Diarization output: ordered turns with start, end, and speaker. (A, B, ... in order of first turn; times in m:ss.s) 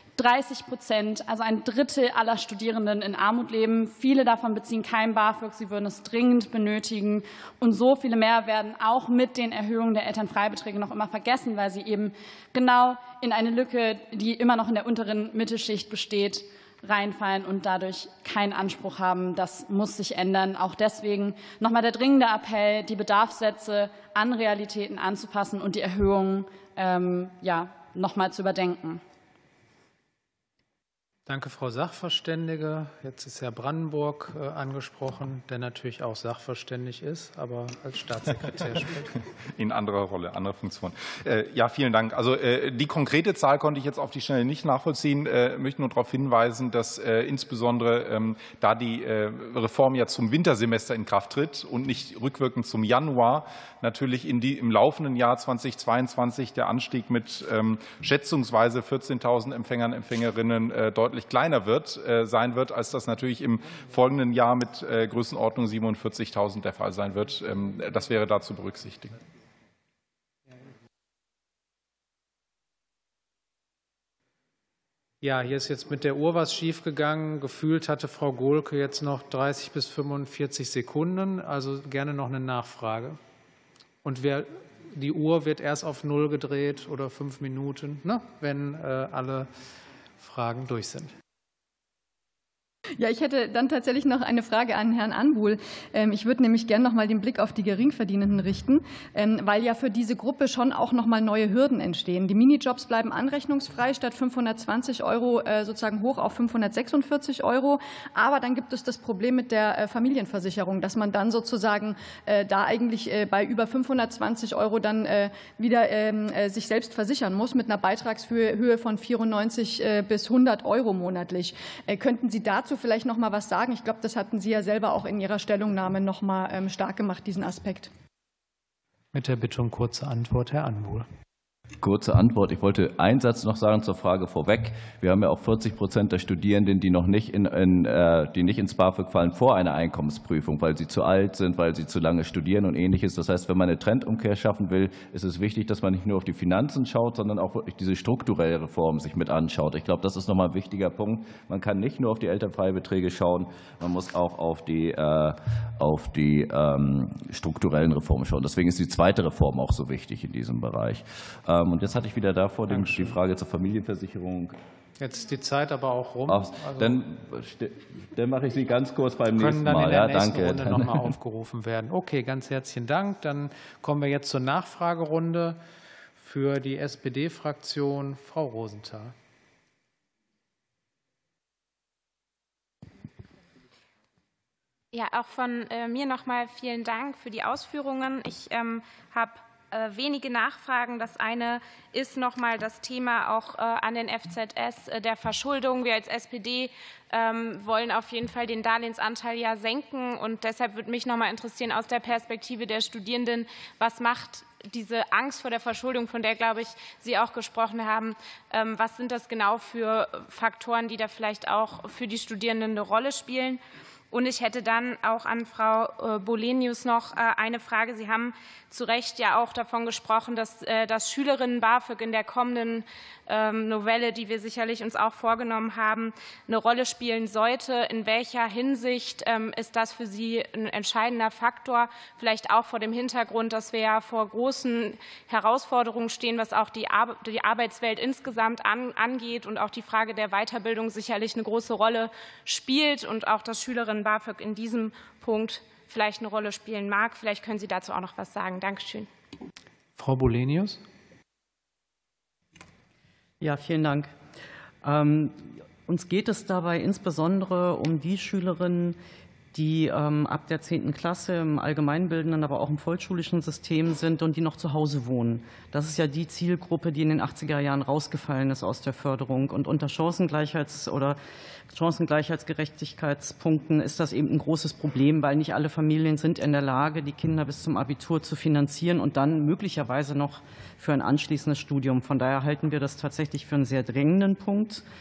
0:00.2-0:29.0 A
0:31.3-0:39.1 B
0:39.6-1:09.2 C
1:15.2-1:23.2 B
1:24.0-1:29.5 B
1:30.2-1:31.1 B
1:33.0-2:07.9 D
2:09.1-2:11.1 B
2:11.8-2:44.6 E
2:42.7-2:43.2 B
2:45.0-2:47.0 B
2:46.3-2:51.1 E
2:49.4-2:55.6 B
2:56.2-2:59.1 B
3:04.9-4:09.1 F
4:10.0-4:10.8 B
4:13.4-4:14.1 G
4:14.8-4:19.0 G
4:19.5-4:31.2 G
4:31.7-4:44.8 G